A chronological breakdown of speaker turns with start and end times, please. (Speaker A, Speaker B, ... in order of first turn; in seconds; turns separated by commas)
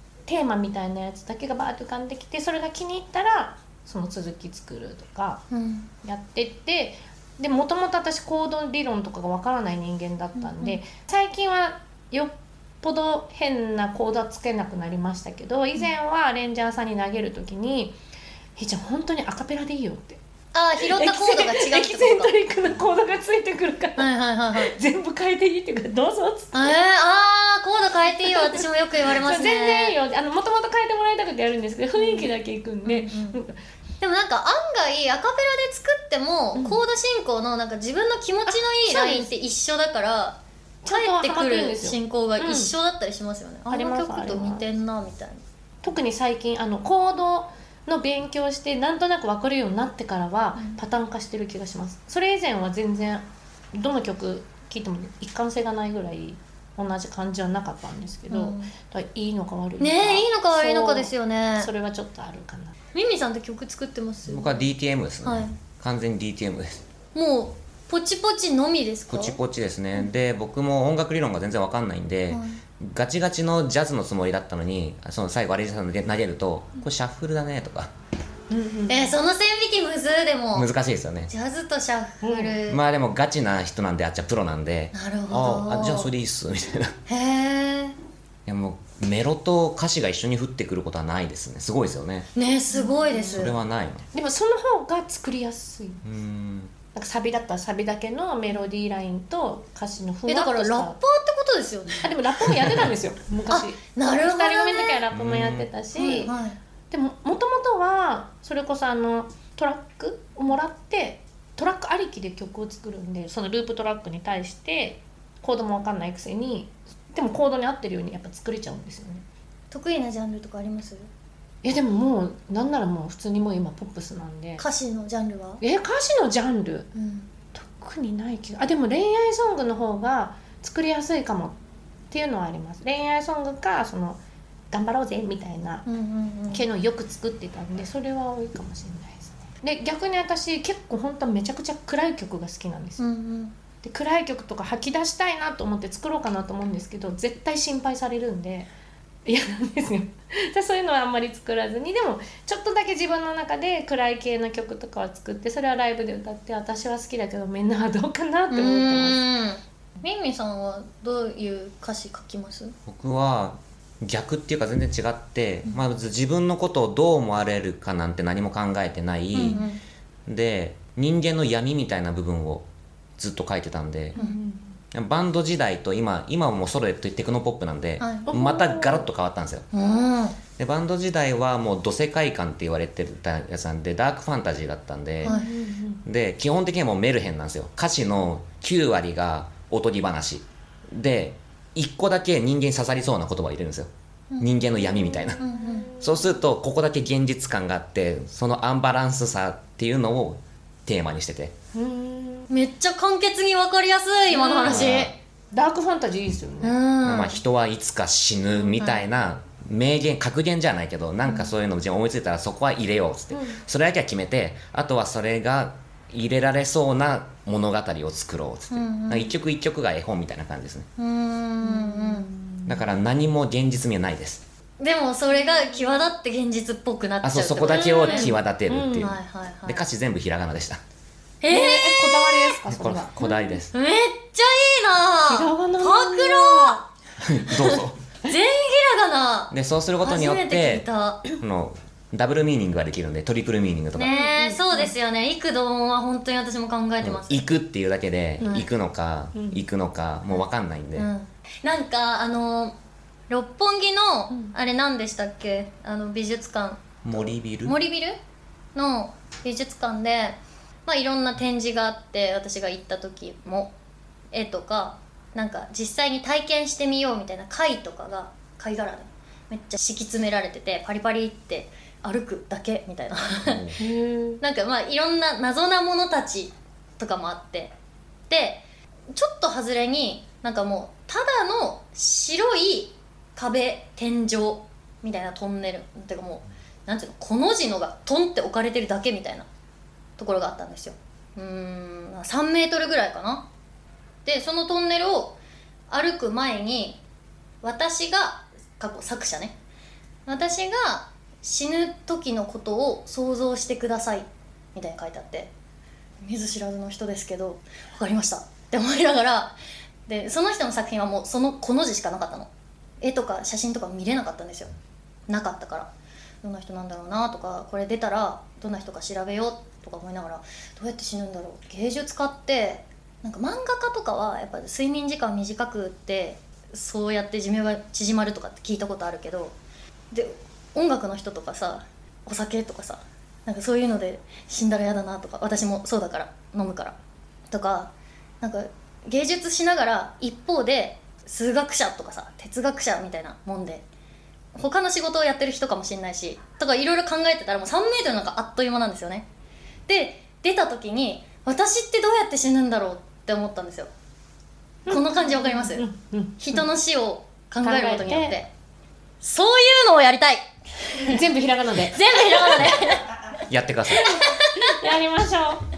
Speaker A: 0.3-5.5, Speaker B: 5.5-5.9, Speaker A: 6.0-18.0, Speaker B: 10.4-10.8, Speaker A: 18.6-20.2, Speaker B: 20.5-22.4, Speaker A: 20.8-26.8, Speaker B: 24.0-24.8, Speaker B: 26.5-29.9, Speaker A: 28.2-33.5, Speaker B: 31.9-32.3, Speaker B: 32.9-33.4, Speaker B: 34.0-45.4, Speaker A: 36.5-36.8, Speaker A: 38.5-39.3, Speaker A: 40.8-42.7, Speaker A: 43.7-44.7, Speaker A: 45.8-62.8, Speaker B: 58.3-58.7, Speaker B: 59.8-61.7, Speaker B: 62.9-64.7, Speaker C: 64.3-66.8, Speaker B: 65.2-65.5, Speaker B: 67.1-69.4, Speaker C: 69.1-77.9, Speaker B: 72.3-72.6, Speaker A: 78.5-79.2, Speaker B: 78.9-80.7, Speaker C: 80.5-81.3, Speaker B: 81.3-82.8, Speaker A: 82.2-82.6, Speaker C: 82.7-87.0, Speaker B: 84.9-86.1, Speaker B: 87.1-88.0, Speaker C: 88.5-92.3, Speaker B: 92.3-93.5, Speaker A: 92.7-93.5, Speaker C: 93.4-94.0, Speaker A: 94.1-96.0, Speaker C: 96.0-96.7, Speaker A: 96.9-101.0, Speaker B: 100.3-102.1, Speaker A: 102.0-106.3, Speaker B: 103.5-105.0, Speaker C: 105.1-105.7, Speaker B: 105.9-106.6, Speaker A: 106.9-119.2, Speaker B: 119.7-121.1, Speaker A: 121.6-124.6, Speaker B: 124.6-125.6, Speaker A: 125.6-126.9, Speaker B: 126.9-127.3, Speaker A: 127.5-131.6, Speaker A: 132.1-134.2, Speaker A: 134.7-135.9, Speaker B: 135.9-136.6, Speaker A: 136.5-143.1, Speaker B: 143.0-143.5, Speaker A: 143.8-148.7, Speaker A: 149.2-159.2, Speaker B: 158.5-162.8, Speaker C: 162.9-169.6, Speaker B: 169.3-169.8, Speaker C: 170.3-172.7, Speaker C: 173.2-174.2, Speaker A: 174.1-174.6, Speaker C: 174.9-179.7, Speaker B: 178.0-178.3, Speaker A: 178.3-179.1, Speaker B: 179.7-180.4, Speaker C: 180.6-185.4, Speaker B: 185.2-185.5, Speaker A: 185.2-186.0, Speaker C: 186.0-195.4, Speaker B: 194.3-194.7, Speaker A: 195.0-196.4, Speaker B: 195.4-195.9, Speaker C: 196.0-201.5, Speaker A: 201.7-202.5, Speaker B: 202.5-205.1, Speaker A: 204.3-206.8, Speaker C: 204.6-205.1, Speaker B: 206.6-207.4, Speaker C: 207.0-220.9, Speaker B: 208.8-209.0, Speaker A: 213.3-213.6, Speaker B: 218.7-219.3, Speaker B: 221.0-222.3, Speaker A: 221.6-222.9, Speaker C: 222.7-224.4, Speaker B: 224.8-228.3, Speaker C: 227.2-230.8, Speaker A: 227.7-229.1, Speaker B: 229.0-229.8, Speaker B: 231.4-232.6, Speaker A: 231.5-233.6, Speaker C: 232.7-233.7, Speaker B: 233.2-236.9, Speaker A: 235.2-236.8, Speaker C: 237.2-238.0, Speaker B: 237.5-241.3, Speaker C: 239.5-244.1, Speaker B: 243.9-247.4, Speaker A: 244.1-244.9, Speaker C: 247.0-251.1, Speaker B: 248.4-248.7, Speaker A: 249.3-249.6, Speaker B: 250.9-252.8, Speaker B: 253.3-258.2, Speaker A: 254.3-254.5, Speaker C: 257.0-257.8, Speaker B: 258.8-263.7, Speaker B: 264.3-273.7, Speaker C: 273.4-273.8, Speaker A: 273.8-274.4, Speaker B: 274.4-277.7, Speaker B: 278.3-289.5, Speaker B: 290.2-293.5, Speaker B: 294.2-295.4, Speaker B: 295.9-297.0, Speaker B: 297.6-299.6, Speaker B: 300.3-305.5, Speaker B: 306.2-309.6, Speaker B: 310.1-312.5, Speaker B: 313.0-314.7, Speaker B: 315.3-315.9, Speaker B: 316.4-329.5, Speaker B: 330.1-336.9, Speaker B: 337.5-343.8, Speaker B: 344.5-349.3, Speaker B: 349.9-353.9, Speaker A: 354.9-356.6, Speaker B: 354.9-355.9, Speaker B: 356.4-358.5, Speaker A: 357.6-358.4, Speaker B: 359.2-361.2, Speaker A: 361.0-362.8, Speaker B: 361.9-363.1, Speaker C: 363.5-364.1, Speaker A: 363.9-365.6, Speaker B: 364.0-364.8